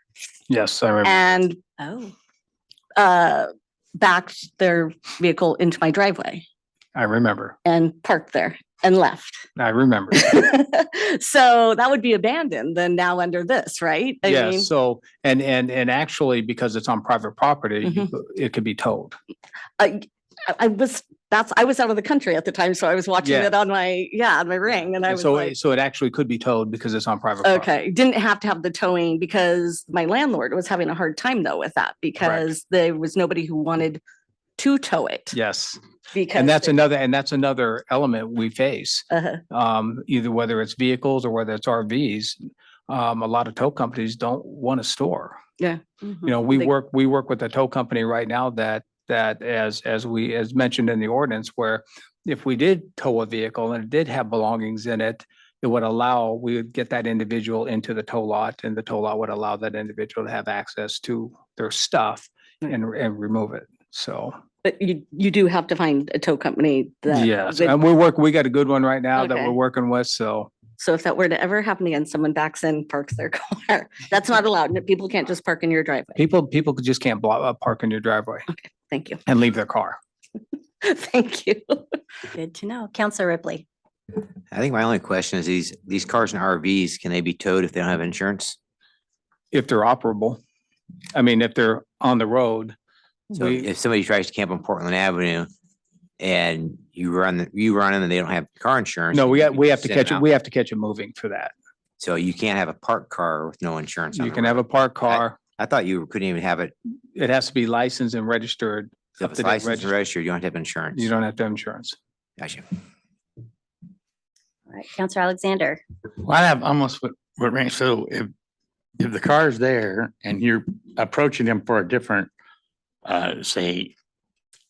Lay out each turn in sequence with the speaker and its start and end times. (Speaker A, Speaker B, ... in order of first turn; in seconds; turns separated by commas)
Speaker A: 0.5-1.2, Speaker B: 1.0-2.0, Speaker B: 3.0-6.4, Speaker A: 6.9-7.5, Speaker B: 7.6-9.4, Speaker A: 9.6-10.4, Speaker B: 10.1-14.7, Speaker A: 14.2-19.2, Speaker B: 19.8-25.5, Speaker A: 23.2-23.6, Speaker A: 25.1-27.7, Speaker B: 27.4-34.0, Speaker A: 32.2-32.5, Speaker B: 34.6-35.4, Speaker A: 35.3-35.8, Speaker B: 36.1-36.8, Speaker A: 36.3-45.4, Speaker B: 39.1-39.4, Speaker B: 45.6-46.7, Speaker A: 46.2-64.4, Speaker B: 64.6-67.8, Speaker A: 67.1-70.5, Speaker B: 69.2-69.5, Speaker B: 70.8-76.2, Speaker A: 76.2-78.5, Speaker B: 78.5-79.2, Speaker A: 79.3-80.0, Speaker B: 80.8-81.8, Speaker C: 82.3-83.6, Speaker D: 84.5-88.5, Speaker A: 89.5-90.4, Speaker A: 91.1-92.8, Speaker A: 93.3-93.7, Speaker D: 93.3-95.5, Speaker D: 96.2-100.2, Speaker A: 99.1-101.5, Speaker D: 102.0-106.7, Speaker A: 104.1-105.4, Speaker A: 107.1-109.9, Speaker D: 109.2-111.1, Speaker A: 110.9-112.0, Speaker D: 112.4-112.6, Speaker C: 114.7-115.8, Speaker E: 116.2-118.3, Speaker E: 119.0-122.3, Speaker E: 123.0-123.9